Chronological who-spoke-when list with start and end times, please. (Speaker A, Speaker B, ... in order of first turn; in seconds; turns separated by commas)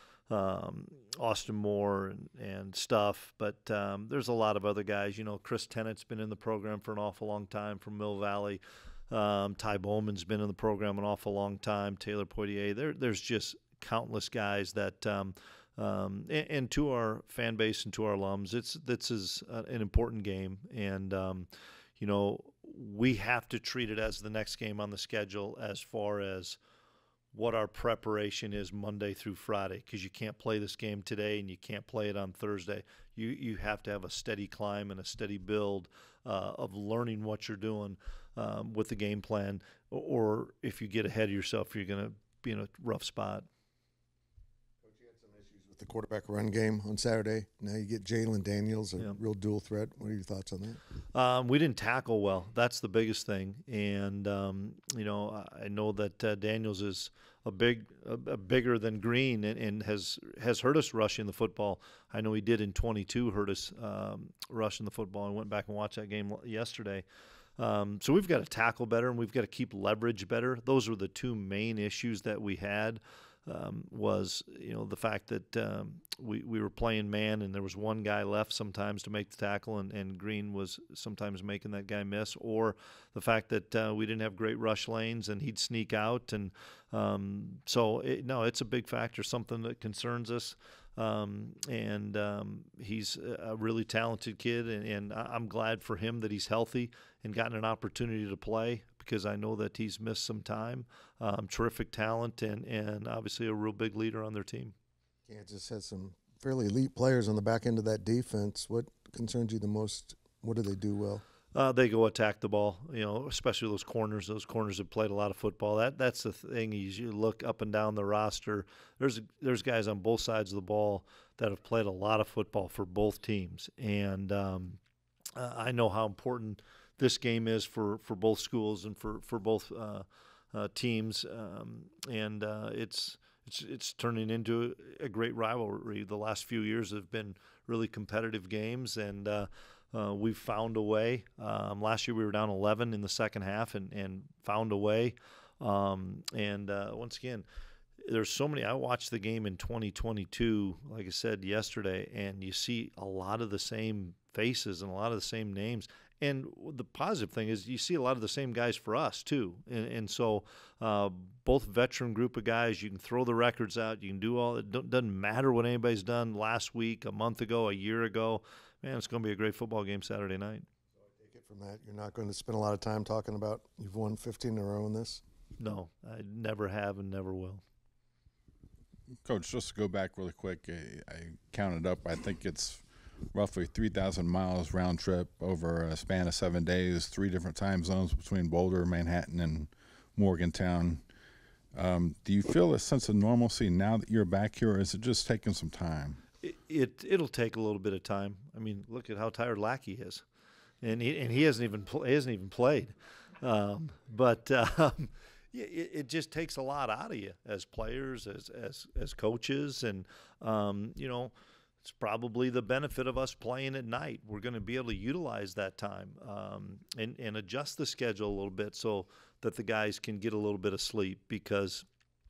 Speaker A: 0.3-26.6, Speaker A: 27.3-43.5, Speaker B: 44.8-50.8, Speaker A: 51.1-67.0, Speaker A: 67.6-104.8, Speaker B: 105.3-111.2, Speaker A: 111.5-124.8, Speaker A: 125.4-147.5, Speaker A: 148.0-170.7, Speaker B: 171.0-175.2, Speaker A: 175.6-177.6, Speaker C: 179.2-191.0, Speaker C: 191.8-196.2, Speaker A: 196.4-200.2, Speaker A: 200.8-211.3, Speaker A: 211.8-221.9